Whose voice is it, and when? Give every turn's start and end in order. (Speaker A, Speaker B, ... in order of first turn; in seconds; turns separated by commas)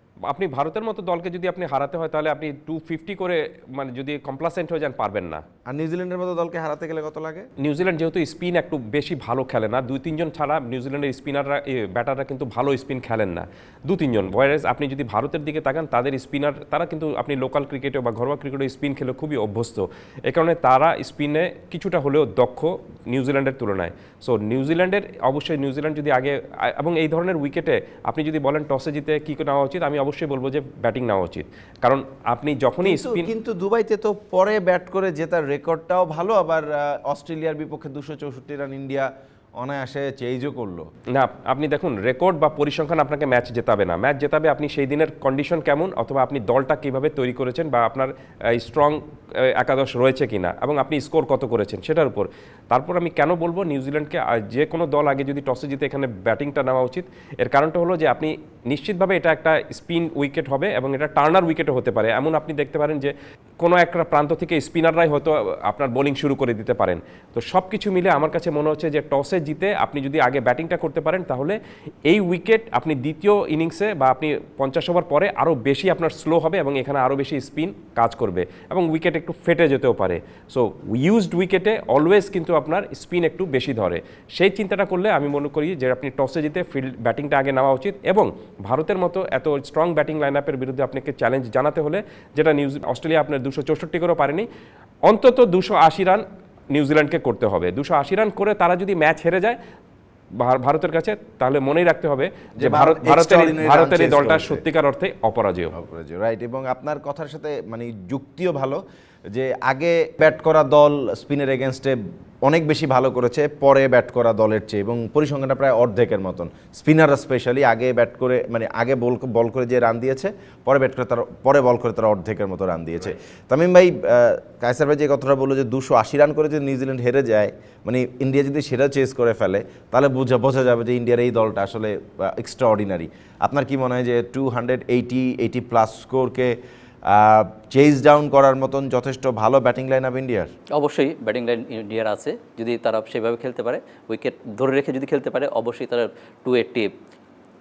Speaker A: 0.3-5.4, Speaker B: 5.7-7.5, Speaker A: 7.6-33.3, Speaker B: 32.8-40.9, Speaker A: 41.1-94.5, Speaker A: 95.1-99.6, Speaker A: 100.3-105.7, Speaker B: 102.6-104.6, Speaker B: 105.7-140.5, Speaker C: 140.7-146.9